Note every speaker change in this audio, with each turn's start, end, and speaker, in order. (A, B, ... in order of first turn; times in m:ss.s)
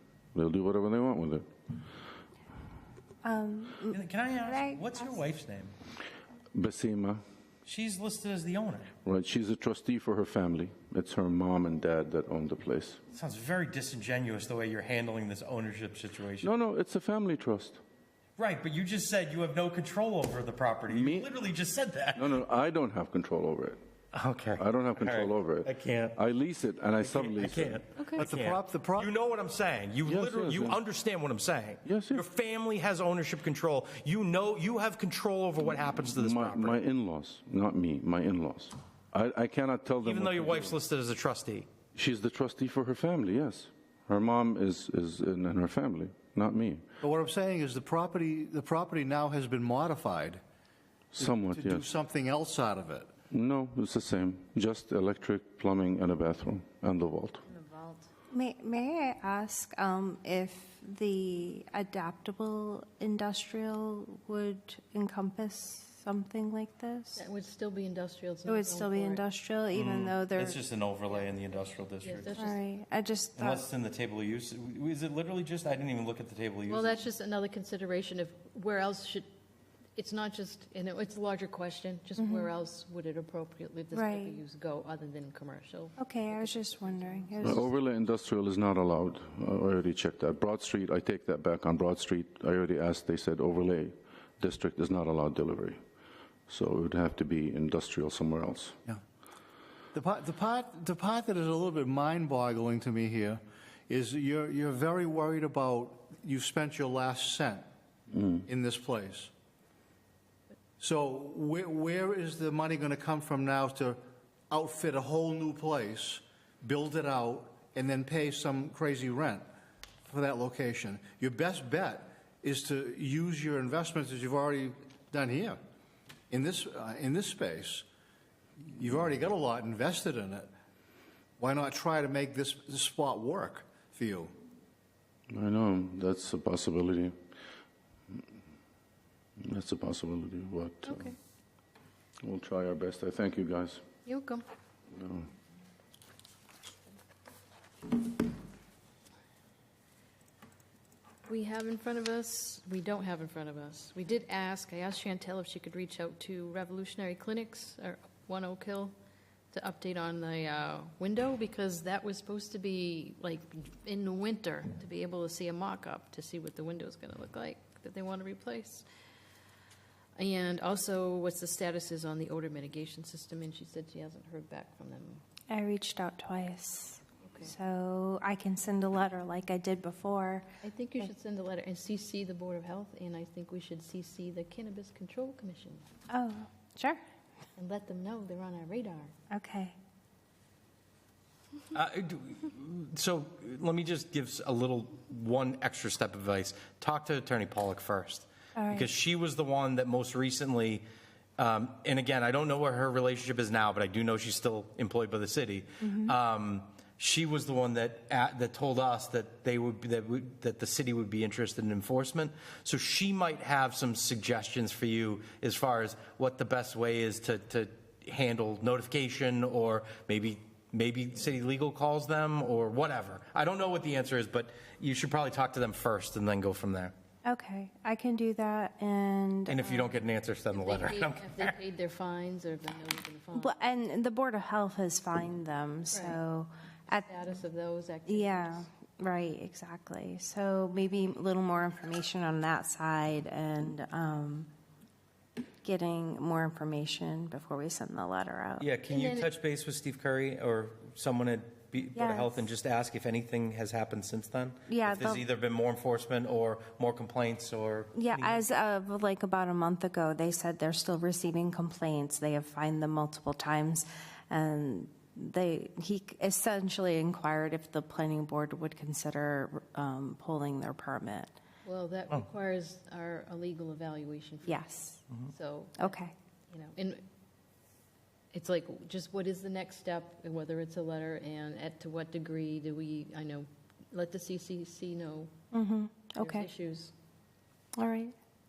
0:00.4-0:01.5 A
0:03.2-0:05.2 B
0:03.9-0:05.7 C
0:06.6-0:07.2 A
0:07.7-0:08.9 C
0:09.0-0:13.0 A
0:13.1-0:16.5 C
0:16.4-0:17.8 A
0:18.4-0:22.4 C
0:20.9-0:21.3 A
0:22.2-0:23.8 A
0:24.1-0:26.2 C
0:24.6-0:27.8 A
0:27.0-0:36.8 C
0:28.0-0:28.3 D
0:28.2-0:29.1 E
0:30.0-0:30.8 A
0:31.8-0:32.3 A
0:36.2-0:40.8 A
0:40.0-0:41.7 C
0:42.0-0:46.8 A
0:47.0-0:50.4 E
0:51.1-0:51.9 A
0:51.2-0:53.1 E
0:53.3-0:57.4 A
0:57.5-0:58.1 D
0:58.3-1:07.2 B
1:07.2-1:09.2 D
1:08.5-1:10.6 B
1:09.7-1:12.4 C
1:11.1-1:12.7 D
1:12.4-1:13.6 B
1:13.4-1:17.0 C
1:16.7-1:19.2 D
1:20.0-1:27.7 D
1:22.2-1:22.5 B
1:23.9-1:24.4 B
1:26.0-1:27.7 B
1:27.4-1:35.8 A
1:36.5-1:38.8 A
1:39.9-1:47.6 E
1:48.1-1:48.4 A
1:48.5-1:49.3 E
1:50.8-1:59.4 E
2:00.1-2:05.6 E
2:06.3-2:07.9 E
2:08.6-2:10.5 E
2:11.4-2:14.3 E
2:15.3-2:17.2 A
2:19.4-2:21.1 A
2:20.8-2:21.2 D
2:22.2-2:23.8 A
2:24.0-2:24.4 D
2:24.9-2:25.3 A
2:31.3-2:38.9 D
2:39.5-2:48.9 D
2:50.2-2:55.2 D
2:55.5-3:00.5 B
2:57.3-2:57.5 D
3:00.6-3:05.8 D
3:06.1-3:07.0 B
3:07.6-3:09.1 D
3:09.3-3:09.8 B
3:11.7-3:20.8 C
3:18.6-3:18.9 B
3:21.4-3:46.9 C
3:25.8-3:26.2 B
3:47.2-3:50.0 B
3:49.5-3:51.6 C
3:50.5-3:53.5 D
3:53.4-3:57.1 B
3:55.9-3:56.2 D
3:56.9-3:58.7 D
3:58.1-4:04.5 B
4:05.6-4:08.7 B
4:08.6-4:18.4 C
4:08.9-4:09.3 D
4:12.0-4:12.4 B
4:14.7-4:15.2 B
4:18.0-4:31.3 B
4:31.6-4:34.7 D
4:34.5-4:35.0 B
4:35.3-4:36.0 D
4:35.8-4:36.1 B
4:36.5-4:37.0 D
4:38.3-4:45.3 D
4:45.5-4:46.5 B
4:46.2-4:46.9 D
4:47.8-4:48.2 B